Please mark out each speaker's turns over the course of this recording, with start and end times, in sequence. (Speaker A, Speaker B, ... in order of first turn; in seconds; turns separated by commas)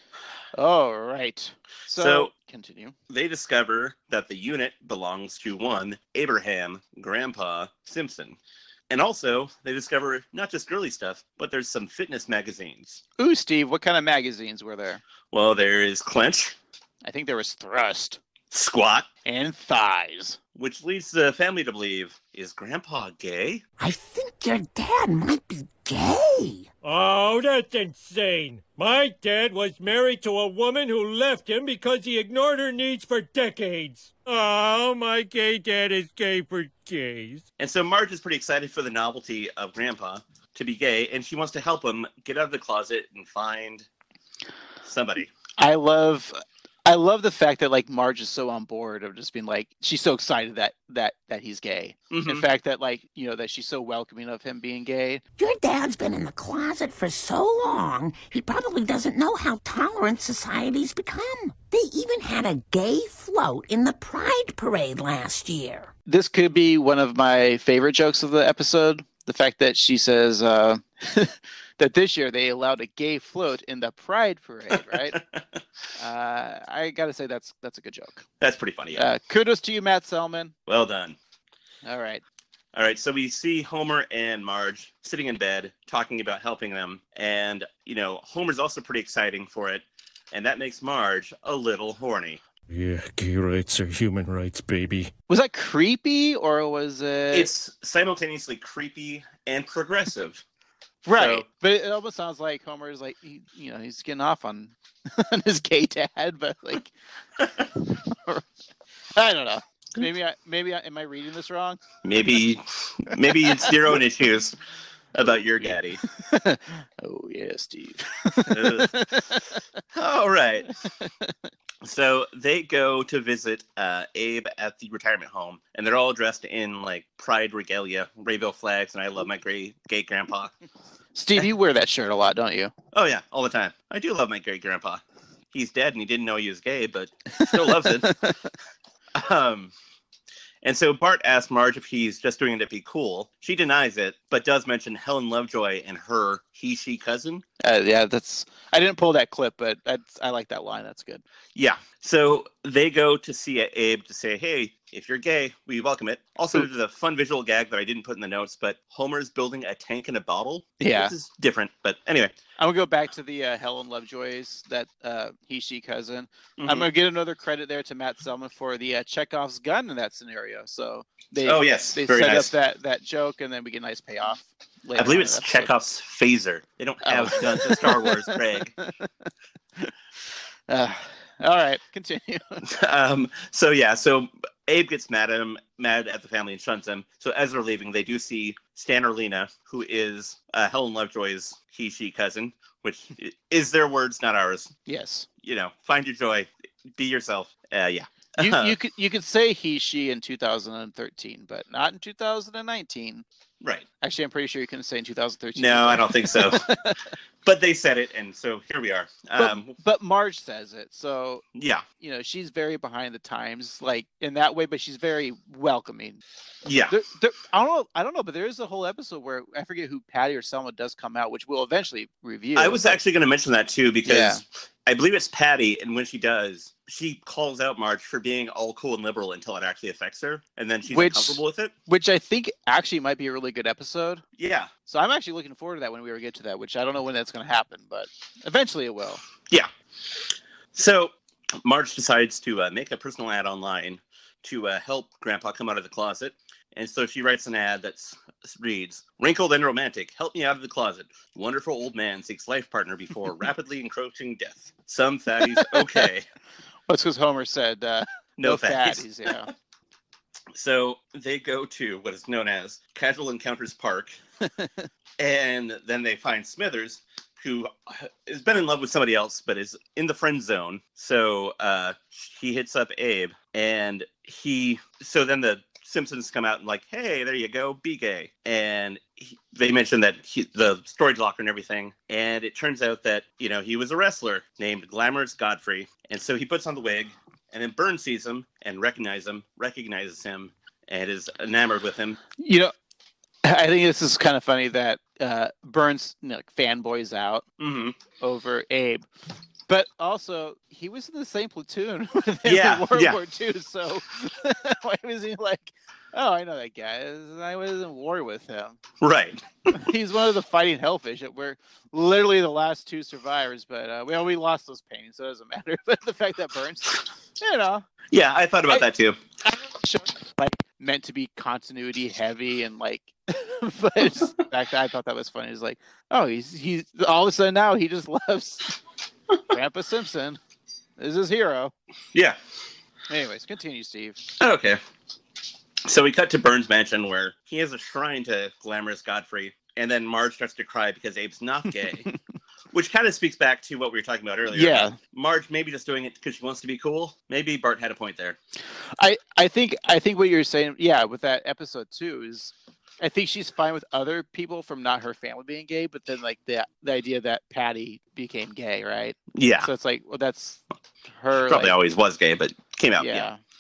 Speaker A: 0.6-2.9, Speaker B: 1.9-2.3, Speaker B: 3.1-8.4, Speaker B: 8.9-13.0, Speaker A: 13.2-15.0, Speaker B: 15.3-16.6, Speaker A: 17.0-18.2, Speaker B: 18.5-19.1, Speaker A: 19.2-20.4, Speaker B: 20.6-23.6, Speaker C: 23.8-26.7, Speaker D: 26.8-37.4, Speaker B: 37.6-43.9, Speaker B: 44.8-45.3, Speaker A: 45.6-55.2, Speaker B: 52.1-52.5, Speaker C: 55.4-65.9, Speaker A: 66.1-75.2, Speaker B: 74.7-75.6, Speaker A: 76.0-78.2, Speaker B: 78.4-79.1, Speaker A: 79.0-80.5, Speaker B: 80.7-81.2, Speaker A: 81.8-82.2, Speaker B: 82.7-92.4, Speaker D: 92.7-95.1, Speaker A: 95.3-97.5, Speaker B: 97.3-100.4, Speaker A: 101.0-106.9, Speaker B: 101.1-101.5, Speaker A: 107.8-108.4, Speaker A: 109.2-111.8, Speaker B: 112.0-114.6, Speaker A: 113.1-113.9, Speaker B: 115.1-116.0, Speaker A: 116.0-119.6, Speaker B: 118.5-119.0, Speaker B: 119.9-120.7, Speaker A: 120.8-121.3, Speaker B: 121.8-130.5, Speaker A: 131.2-132.7, Speaker B: 132.9-138.1, Speaker A: 137.4-138.4, Speaker B: 139.1-139.7, Speaker B: 140.6-147.4, Speaker A: 147.6-151.2, Speaker B: 151.6-162.3, Speaker A: 160.8-161.1, Speaker A: 162.6-175.7, Speaker B: 166.6-166.9, Speaker B: 171.4-172.5, Speaker B: 175.0-178.7, Speaker A: 177.0-178.9, Speaker A: 180.7-182.7, Speaker B: 182.6-194.7, Speaker A: 194.9-195.3, Speaker B: 195.4-198.8, Speaker A: 198.4-203.2, Speaker B: 203.6-203.9, Speaker A: 204.0-207.0, Speaker B: 205.6-206.7, Speaker B: 207.4-209.8, Speaker A: 209.4-211.4, Speaker B: 211.6-211.8, Speaker A: 212.0-216.2, Speaker B: 216.7-217.0, Speaker A: 216.9-223.0, Speaker B: 222.6-231.7, Speaker A: 224.1-224.4, Speaker A: 230.9-234.2, Speaker B: 234.4-234.7, Speaker A: 234.9-239.2, Speaker B: 240.7-256.3, Speaker A: 255.5-256.1, Speaker A: 256.9-259.5, Speaker B: 258.4-259.5, Speaker B: 260.5-264.2, Speaker A: 264.5-264.9, Speaker B: 265.2-292.2, Speaker A: 292.4-292.7, Speaker A: 293.4-297.4, Speaker B: 297.6-298.0, Speaker A: 298.2-299.1, Speaker A: 299.7-308.8, Speaker B: 302.4-303.2, Speaker B: 309.0-309.8, Speaker A: 309.7-317.9, Speaker B: 318.1-319.2, Speaker A: 319.4-328.8, Speaker A: 329.5-330.4, Speaker A: 331.0-331.7, Speaker A: 333.1-334.2, Speaker B: 334.4-334.8, Speaker B: 335.9-342.1, Speaker B: 342.7-348.4, Speaker A: 344.5-345.0, Speaker A: 349.0-361.8, Speaker B: 359.3-359.7, Speaker B: 361.4-363.3, Speaker A: 363.0-363.4